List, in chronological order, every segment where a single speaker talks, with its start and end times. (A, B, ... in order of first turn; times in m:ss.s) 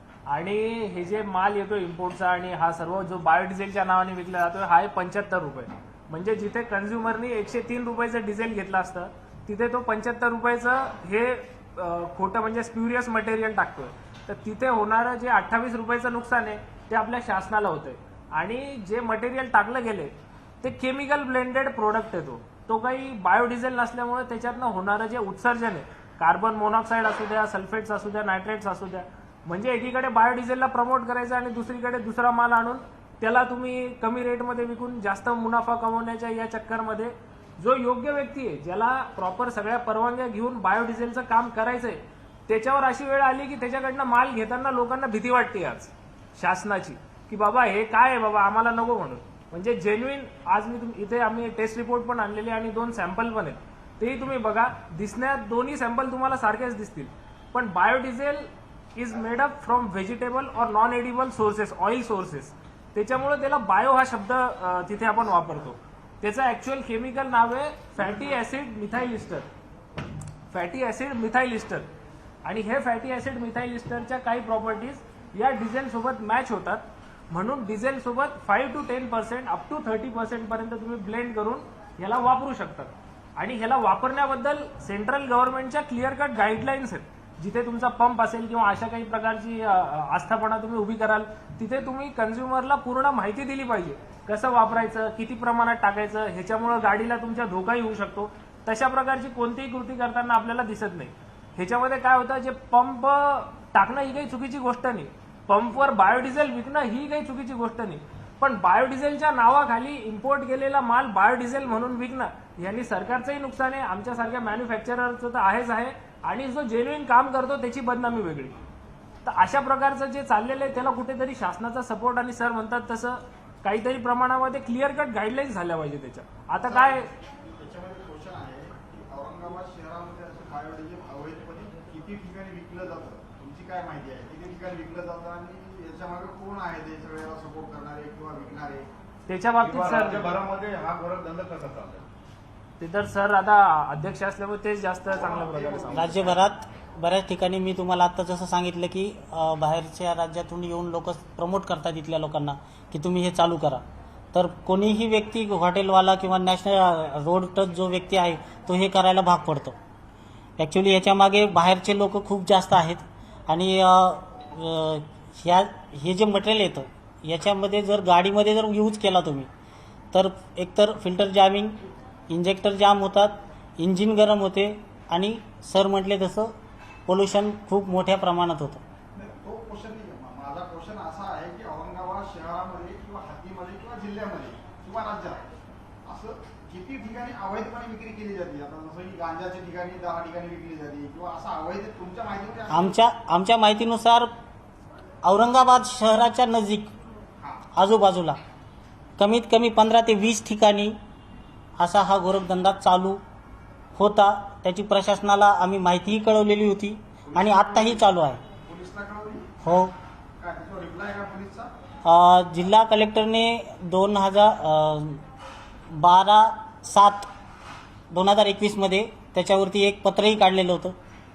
0:00.3-1:09.5 A
1:10.5-1:11.9 A
1:12.4-1:58.6 A
1:59.2-2:07.1 A
2:06.6-2:18.9 B
2:19.3-2:20.4 A
2:19.6-2:22.1 C
2:22.8-2:26.2 A
2:25.2-2:25.5 B
2:25.6-2:26.5 C
2:25.9-2:39.8 D
2:40.6-2:49.5 D
2:50.1-2:51.8 D
2:52.3-2:56.6 D
2:57.1-2:58.8 D
2:59.1-3:05.5 B
3:06.0-3:13.0 B
3:12.7-3:14.3 D
3:15.2-3:16.9 D
3:17.8-3:18.4 D
3:19.2-3:21.0 D
3:21.8-3:23.2 D
3:24.0-3:28.4 D
3:27.3-3:28.0 B
3:28.6-3:29.5 B
3:29.6-3:29.9 D
3:30.4-3:31.7 B
3:32.0-3:35.2 D
3:35.9-3:37.3 D
3:38.1-3:41.0 D